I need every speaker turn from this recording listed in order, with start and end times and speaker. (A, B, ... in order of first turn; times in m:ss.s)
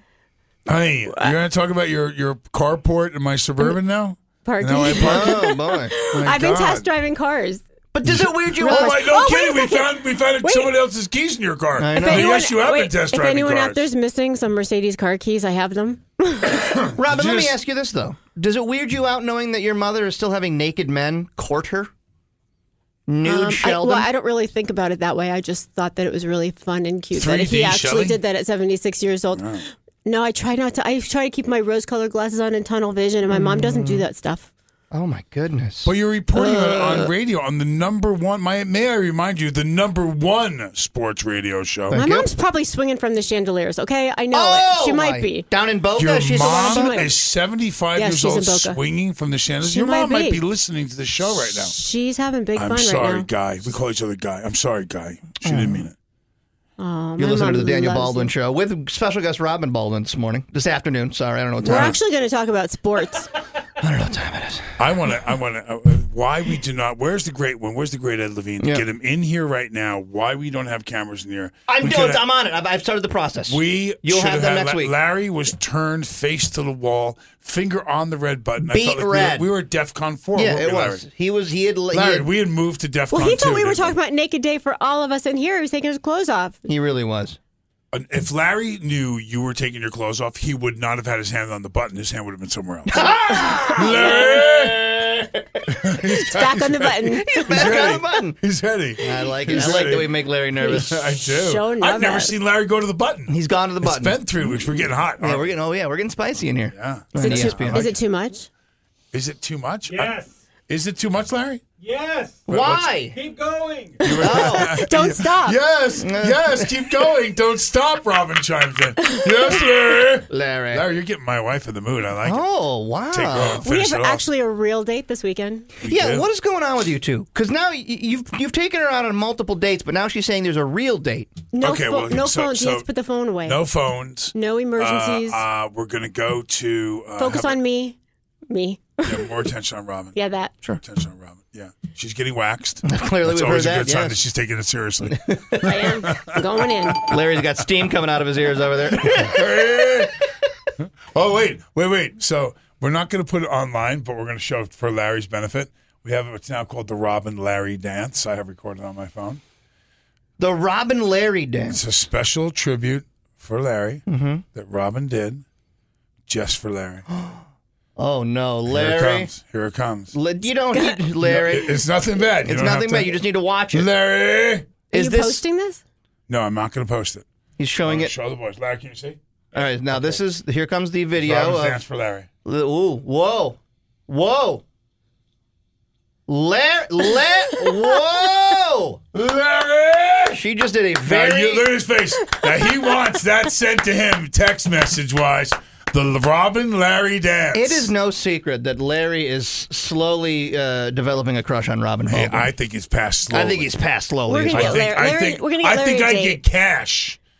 0:00.7-0:05.4 A
0:04.4-0:07.6 B
0:05.0-0:05.9 C
0:06.1-0:06.8 A
0:07.9-0:09.0 C
0:08.0-0:13.9 A
0:08.6-0:10.7 B
0:11.8-0:12.5 C
0:12.0-0:16.7 B
0:16.9-0:21.9 C
0:17.0-0:17.5 A
0:23.1-0:24.1 C
0:23.2-0:34.5 B
0:27.1-0:28.2 A
0:29.3-0:29.6 A
0:33.3-0:34.0 C
0:34.9-0:35.9 C
0:35.8-0:42.0 A
0:36.4-0:37.1 B
0:41.9-0:42.3 C
0:41.9-0:45.4 B
0:44.3-0:47.0 C
0:46.0-0:51.7 A
0:46.4-0:47.1 B
0:48.0-0:48.8 B
0:49.6-0:50.4 B
0:51.3-0:53.3 B
0:52.6-0:55.9 A
0:55.4-0:55.8 C
0:56.8-0:58.3 B
0:57.2-1:02.0 C
1:01.6-1:03.3 B
1:01.6-1:01.9 A
1:03.8-1:04.8 C
1:04.8-1:12.2 A
1:08.6-1:08.8 C
1:11.7-1:14.9 C
1:13.5-1:21.0 A
1:18.6-1:19.5 C
1:20.3-1:22.3 C
1:21.9-1:24.0 A
1:23.1-1:26.6 B
1:26.6-1:27.4 C
1:27.9-1:34.9 A
1:32.9-1:35.7 C
1:33.4-1:34.3 B
1:35.7-1:45.5 A
1:36.0-1:37.9 B
1:37.2-1:38.4 C
1:39.0-1:41.0 C
1:40.6-1:42.3 B
1:43.3-1:44.6 C
1:45.2-1:47.9 C
1:46.7-1:47.9 A
1:47.2-1:48.5 B
1:49.1-1:50.1 A
1:49.9-1:50.4 D
1:50.7-1:51.6 A
1:51.8-1:52.5 D
1:52.5-1:53.2 C
1:52.5-1:53.0 A
1:53.1-1:54.1 D
1:54.0-2:02.4 A
1:54.2-1:54.8 C
1:54.3-1:55.6 B
1:56.0-1:56.7 C
2:00.3-2:00.8 C
2:02.2-2:03.6 C
2:03.1-2:04.2 A
2:03.6-2:05.7 B
2:05.8-2:06.2 A
2:05.9-2:11.3 C
2:11.5-2:13.6 B
2:11.6-2:12.8 A
2:13.4-2:17.6 A
2:14.3-2:15.4 B
2:17.2-2:18.0 B
2:18.5-2:19.3 B
2:19.0-2:20.2 A
2:20.1-2:20.5 B
2:20.8-2:27.1 A
2:22.8-2:24.2 C
2:25.3-2:25.8 C
2:25.6-2:27.0 B
2:27.0-2:30.1 C
2:29.0-2:30.1 A
2:31.1-2:39.4 A
2:40.4-2:41.8 C
2:41.7-2:45.4 A
2:44.1-2:44.4 C
2:46.3-2:47.0 A
2:47.1-2:47.4 C
2:48.0-2:49.3 C
2:48.7-2:50.1 A
2:50.1-2:51.8 C
2:51.2-2:53.2 A
2:52.4-2:53.9 C
2:53.7-2:54.7 A
2:54.9-2:55.4 C
2:54.9-2:55.8 B
2:56.3-2:57.2 A
2:57.6-2:58.1 C
2:57.8-2:59.2 A
2:59.5-3:01.8 C
3:01.2-3:02.3 A
3:02.4-3:04.6 C
3:06.3-3:09.0 C
3:09.1-3:10.4 A
3:10.3-3:11.7 C
3:11.0-3:17.9 A
3:17.5-3:22.5 C
3:22.1-3:23.7 A
3:23.3-3:24.8 C
3:24.3-3:26.4 B
3:24.5-3:27.2 A